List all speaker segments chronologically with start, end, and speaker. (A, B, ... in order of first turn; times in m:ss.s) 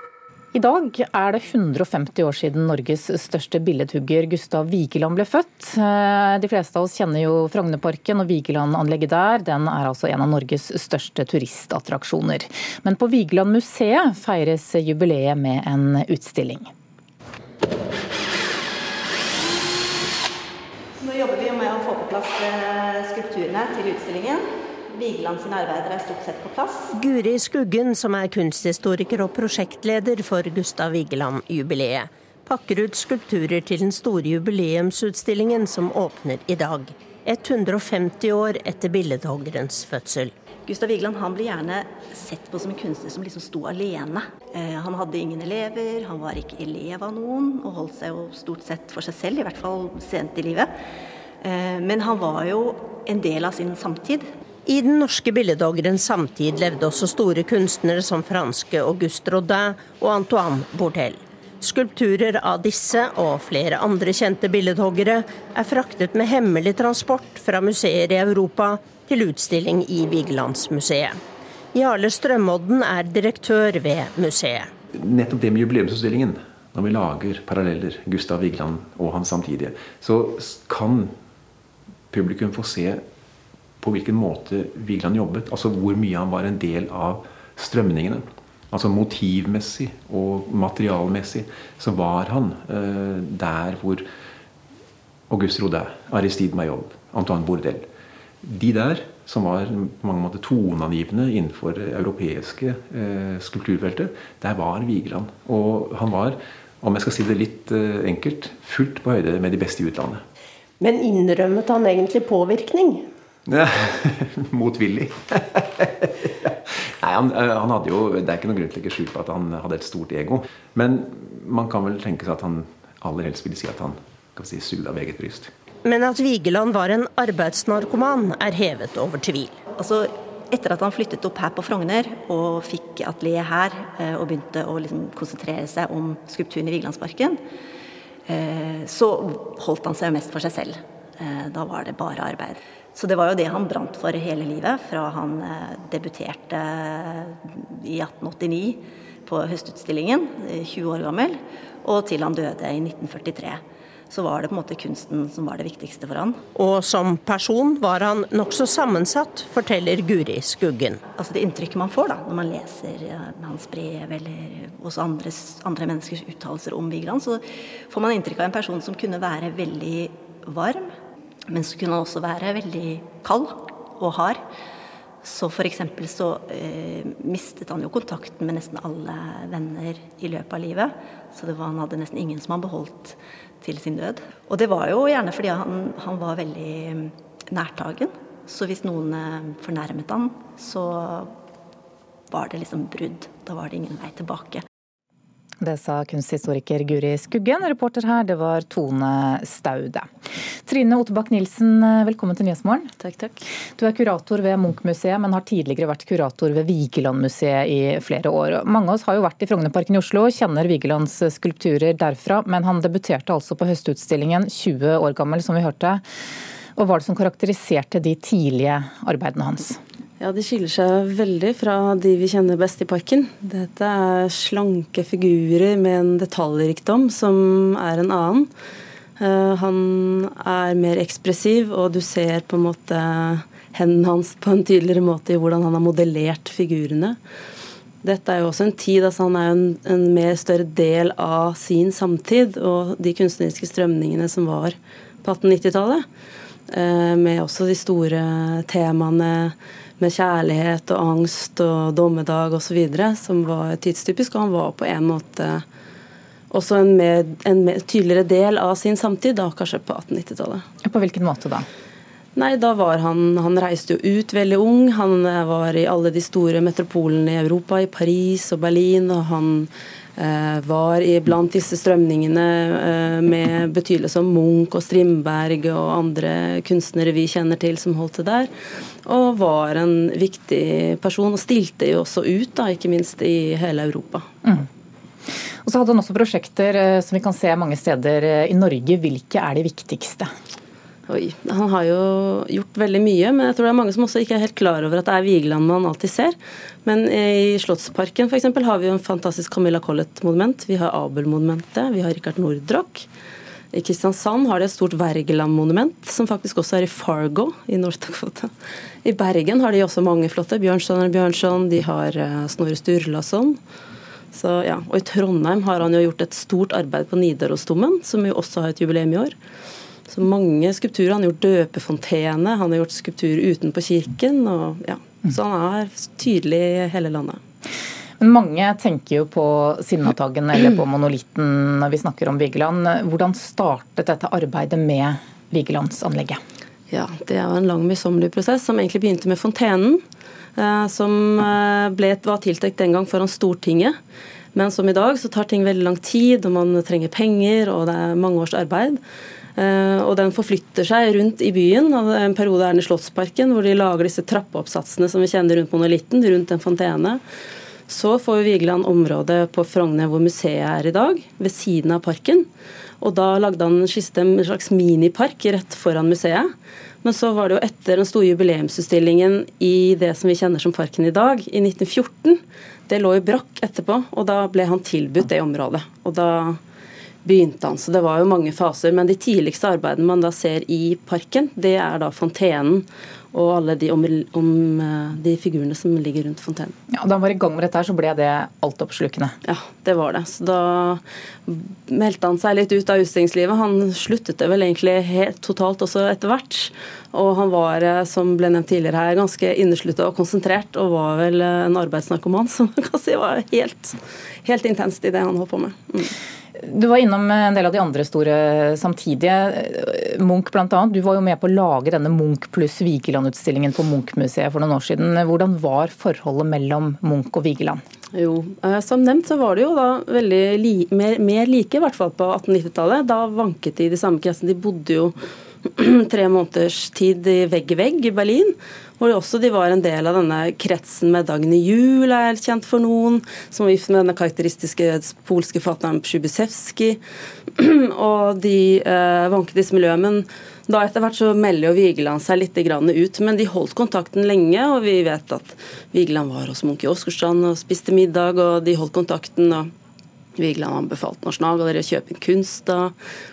0:00.5-0:16.7 A
0:21.0-0:26.9 B
0:26.9-0:40.3 C
0:40.6-0:50.7 B
0:51.4-0:54.3 B
0:54.6-1:11.2 C
1:11.7-1:14.7 C
1:15.0-1:21.1 D
1:22.1-1:23.0 D
1:23.8-1:34.0 D
1:35.3-1:37.8 D
1:38.4-1:50.2 D
1:50.8-1:53.1 C
1:53.5-2:05.5 D
2:05.8-2:09.6 C
2:09.8-2:17.4 B
2:18.3-2:36.4 B
2:36.5-2:41.0 C
2:41.1-2:50.9 B
2:51.5-2:54.4 B
2:55.2-3:11.3 B
3:12.3-3:14.6 B
3:15.6-3:20.1 A
3:20.6-3:22.9 A
3:23.8-3:36.0 A
3:36.8-3:39.8 A
3:40.3-3:48.5 E
3:49.2-3:57.1 E
3:58.1-4:04.7 E
4:05.2-4:06.0 E
4:06.8-4:09.5 E
4:10.0-4:15.6 E
4:16.5-4:20.6 E
4:20.8-4:21.6 A
4:22.4-4:29.7 E
4:30.3-4:38.5 E
4:39.1-4:44.2 E
4:45.6-4:50.3 A
4:51.2-4:56.3 E
4:56.9-5:03.0 E
5:03.8-5:08.4 E
5:09.1-5:13.5 E
5:14.4-5:19.3 E
5:20.3-5:27.3 E
5:28.2-5:36.4 A
5:37.0-5:40.0 E
5:40.6-5:43.9 E
5:44.6-5:48.9 E
5:49.6-5:57.2 E
5:57.9-6:02.4 E
6:03.1-6:06.4 E
6:07.0-6:12.4 E
6:12.9-6:16.5 E
6:17.3-6:22.8 E
6:23.4-6:26.6 E
6:26.9-6:29.3 A
6:29.5-6:31.0 E
6:31.9-6:43.9 E
6:44.5-6:45.8 E
6:46.6-6:57.8 A
6:58.5-7:05.1 E
7:06.1-7:08.5 E
7:09.0-7:17.0 E
7:18.0-7:29.6 E
7:30.4-7:32.9 E